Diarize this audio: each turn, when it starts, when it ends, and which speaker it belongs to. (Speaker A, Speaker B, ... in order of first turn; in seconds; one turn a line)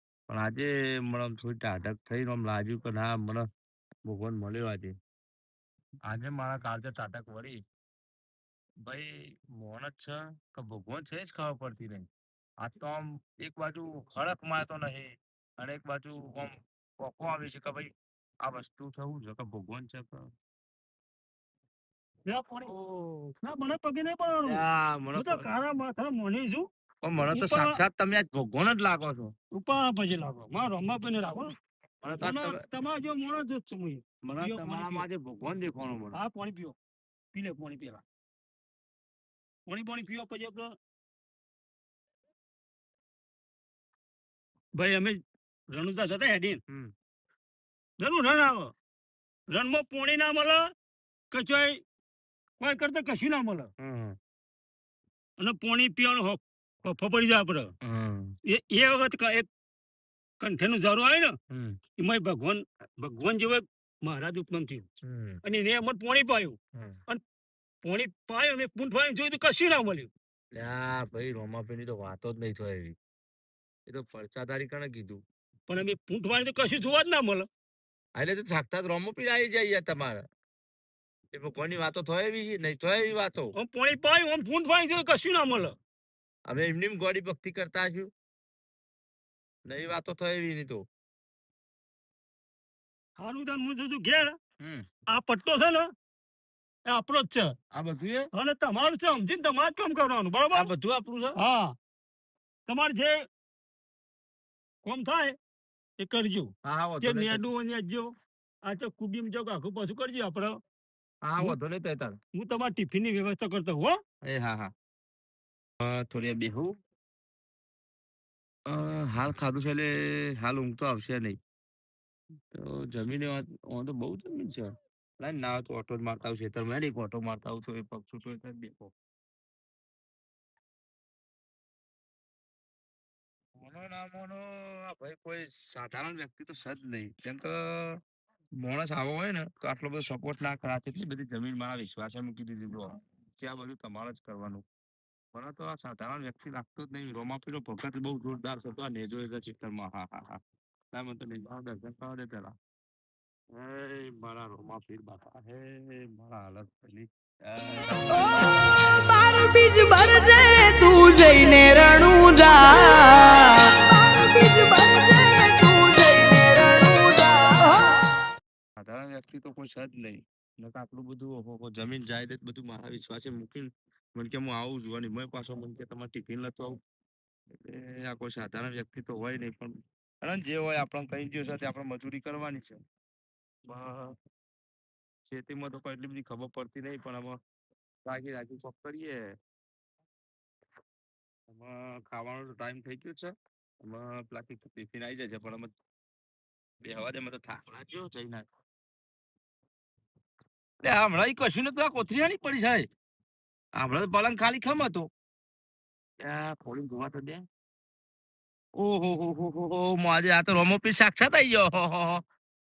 Speaker A: 0.3-3.5
Speaker A: 4.0-4.9
Speaker A: 6.1-7.6
Speaker A: 8.8-12.1
Speaker A: 12.6-17.9
Speaker A: 18.4-20.3
Speaker B: 22.3-24.6
Speaker A: 24.4-25.5
Speaker B: 25.1-26.6
Speaker A: 27.0-29.3
Speaker B: 27.3-27.7
Speaker B: 29.6-31.5
Speaker A: 32.0-32.6
Speaker B: 32.2-35.1
Speaker A: 34.2-36.2
Speaker B: 36.1-36.7
Speaker B: 37.3-37.9
Speaker B: 39.7-40.7
Speaker B: 44.8-45.1
Speaker B: 45.8-46.5
Speaker B: 48.0-48.6
Speaker B: 49.5-50.6
Speaker B: 51.3-51.7
Speaker B: 52.6-53.6
Speaker A: 53.8-54.2
Speaker B: 55.4-57.6
Speaker A: 57.8-58.4
Speaker B: 58.7-59.5
Speaker B: 60.4-61.3
Speaker A: 61.5-61.8
Speaker B: 62.0-64.8
Speaker A: 65.0-65.4
Speaker B: 65.5-66.5
Speaker B: 67.8-69.9
Speaker A: 70.5-73.0
Speaker A: 73.8-75.2
Speaker B: 75.7-77.4
Speaker A: 78.1-80.2
Speaker A: 81.3-83.5
Speaker B: 83.6-85.7
Speaker A: 86.5-88.1
Speaker A: 89.7-90.8
Speaker B: 93.2-94.3
Speaker A: 94.6-94.8
Speaker B: 95.1-95.8
Speaker B: 96.9-97.4
Speaker A: 97.7-98.3
Speaker B: 98.3-100.7
Speaker A: 100.5-101.3
Speaker B: 101.4-101.7
Speaker B: 102.7-103.1
Speaker B: 104.8-105.3
Speaker B: 106.0-106.5
Speaker A: 106.6-107.4
Speaker B: 107.0-108.0
Speaker B: 108.7-110.5
Speaker A: 111.2-112.2
Speaker B: 112.4-114.0
Speaker A: 114.2-114.7
Speaker A: 115.8-116.8
Speaker A: 118.7-121.4
Speaker A: 122.5-128.9
Speaker A: 133.6-138.0
Speaker A: 138.6-144.6
Speaker A: 145.3-150.4
Speaker A: 150.9-152.6
Speaker A: 153.5-158.2
Speaker C: 158.7-168.0
Speaker A: 168.8-176.8
Speaker A: 177.5-182.8
Speaker A: 183.7-184.1
Speaker A: 185.3-187.4
Speaker A: 188.1-189.3
Speaker A: 191.5-195.7
Speaker A: 196.8-198.4
Speaker A: 200.8-202.9
Speaker A: 203.8-205.1
Speaker A: 206.2-207.4
Speaker A: 208.8-212.2